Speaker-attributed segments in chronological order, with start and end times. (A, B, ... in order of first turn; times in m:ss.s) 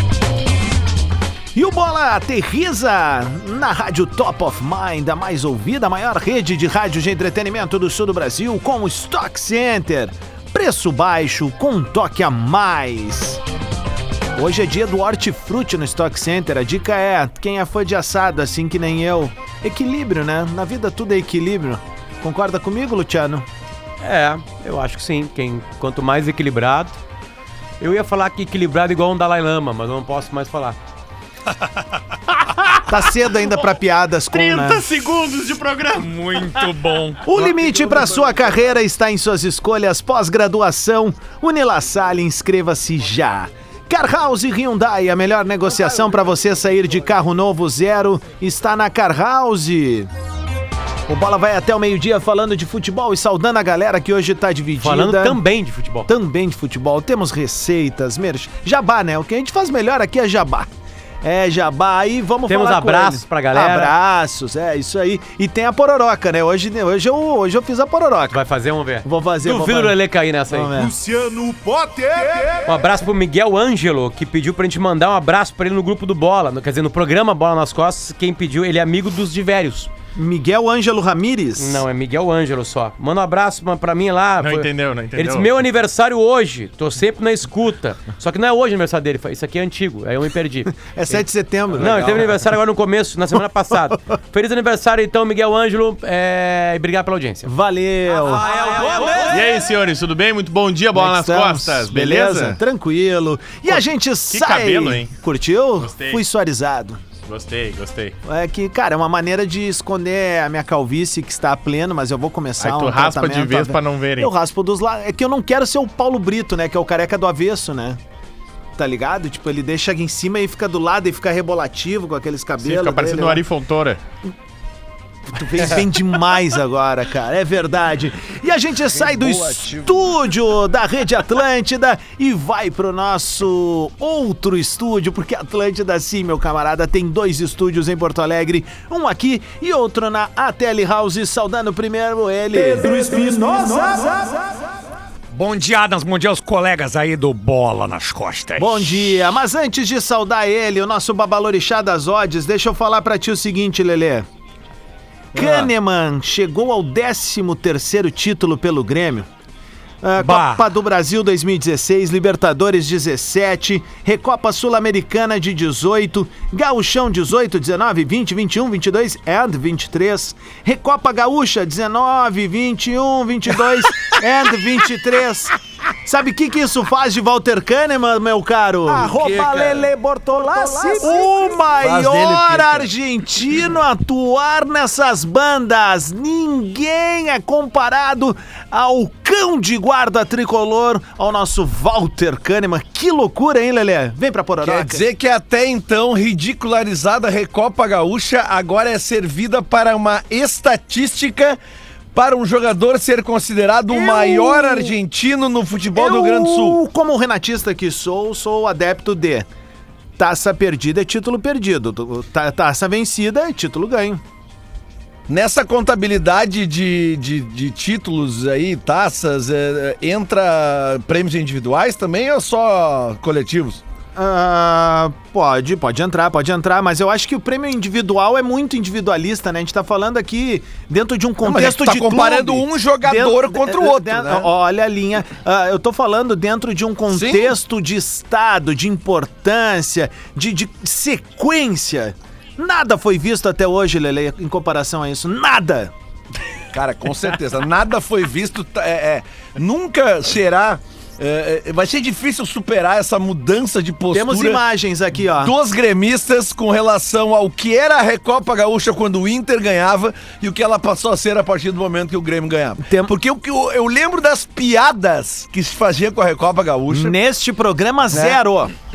0:01.5-0:13.4 A
0:14.4-0:23.4 A
0:24.0-0:26.9 B
0:27.8-0:30.8 B
0:32.4-0:33.1 C
0:32.9-0:34.8 A
0:34.3-0:36.7 C
0:35.9-0:38.1 D
0:37.2-0:50.1 A
0:51.1-0:55.4 A
0:54.8-0:56.1 B
0:56.1-1:00.7 A
1:01.2-1:08.4 A
1:02.5-1:03.9 B
1:08.3-1:10.8 B
1:09.0-1:10.0 A
1:10.5-1:12.7 A
1:12.6-1:19.9 B
1:20.1-1:21.8 A
1:21.6-1:31.2 B
1:24.4-1:25.5 C
1:30.8-1:32.4 A
1:31.7-1:37.5 B
1:31.8-1:32.2 C
1:37.4-1:38.4 A
1:38.3-1:39.4 D
1:38.4-1:39.3 B
1:39.3-1:42.6 C
1:40.9-1:47.0 A
1:43.7-1:45.1 C
1:45.8-1:46.2 C
1:47.2-1:48.1 C
1:48.2-1:58.0 A
1:52.6-1:54.3 C
1:58.8-2:03.4 A
2:02.6-2:04.0 C
2:05.3-2:24.5 A
2:08.9-2:10.1 E
2:25.3-2:29.0 D
2:28.6-2:34.2 A
2:35.3-2:39.3 A
2:35.4-2:35.7 D
2:40.0-3:15.0 A
2:40.2-2:40.6 D
2:58.9-2:59.9 E
3:00.9-3:01.1 E
3:01.8-3:02.9 E
3:14.6-3:21.6 E
3:22.1-3:26.8 E
3:23.9-3:24.9 A
3:25.9-3:29.4 A
3:30.2-3:34.2 A
3:35.3-3:43.8 E
3:44.2-4:05.9 A
3:51.4-3:54.5 E
3:57.1-3:57.6 E
4:06.7-4:14.6 E
4:14.1-4:15.5 A
4:15.4-4:27.2 E
4:22.8-4:23.1 A
4:26.9-4:28.7 A